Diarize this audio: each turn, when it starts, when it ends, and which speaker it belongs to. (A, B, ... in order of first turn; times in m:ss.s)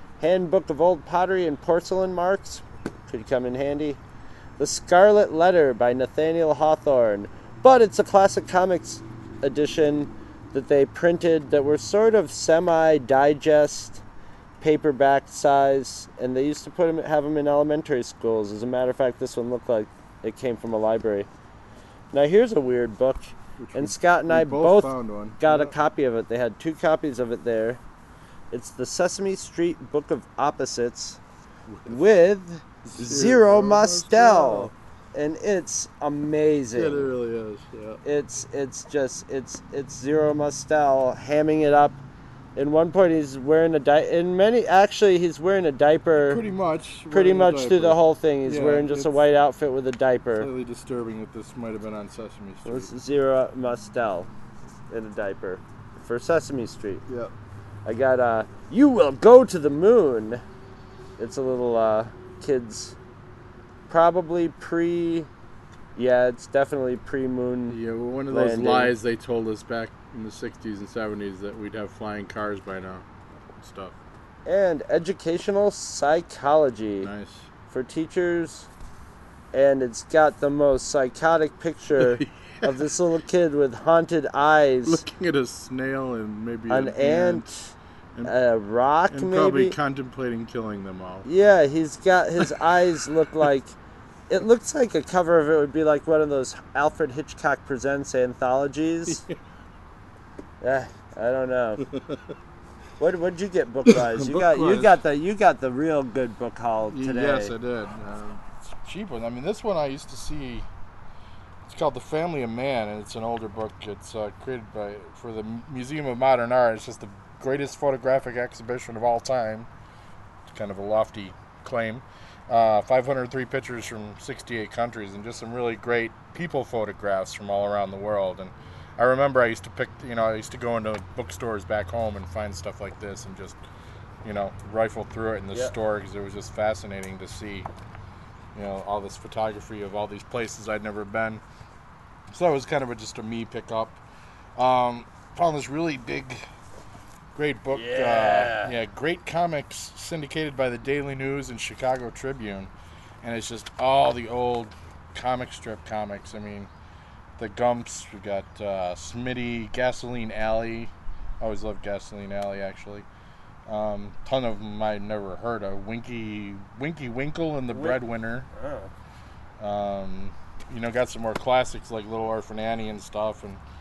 0:00.2-0:04.0 A
0:04.6-0:14.0 A
0:14.6-0:21.3 A
0:22.1-0:27.8 A
0:23.6-0:25.7 B
0:28.5-0:31.2 A
0:31.7-0:32.1 B
0:31.9-0:37.1 A
0:32.8-0:34.7 B
0:36.7-0:38.0 B
0:38.0-0:42.0 A
0:42.6-0:46.4 A
0:46.2-0:49.3 B
0:47.1-0:50.5 A
0:50.4-0:52.9 B
0:52.6-0:54.3 A
0:54.9-0:57.0 A
0:57.1-0:57.3 B
0:57.8-1:00.4 A
1:01.2-1:03.0 A
1:03.9-1:05.3 A
1:06.0-1:07.8 A
1:07.7-1:14.0 B
1:08.3-1:08.9 A
1:14.4-1:17.1 A
1:17.0-1:17.5 B
1:17.7-1:18.7 A
1:19.5-1:25.0 A
1:22.0-1:22.9 B
1:24.8-1:27.5 B
1:26.7-1:27.7 A
1:28.2-1:29.8 A
1:29.1-1:31.2 B
1:31.2-1:33.8 A
1:34.3-1:39.2 A
1:39.1-1:39.4 B
1:40.6-1:41.8 A
1:41.9-1:42.2 B
1:43.0-1:47.5 A
1:43.8-1:45.0 B
1:46.9-1:50.7 B
1:51.6-1:59.7 B
2:00.5-2:13.6 B
2:14.2-2:17.7 B
2:18.5-2:21.4 B
2:22.3-2:24.0 B
2:24.6-2:26.5 B
2:27.3-2:32.7 B
2:27.7-2:28.8 A
2:33.2-2:36.7 B
2:37.4-2:43.1 B
2:43.6-2:48.5 B
2:47.7-2:48.9 A
2:49.6-2:53.6 B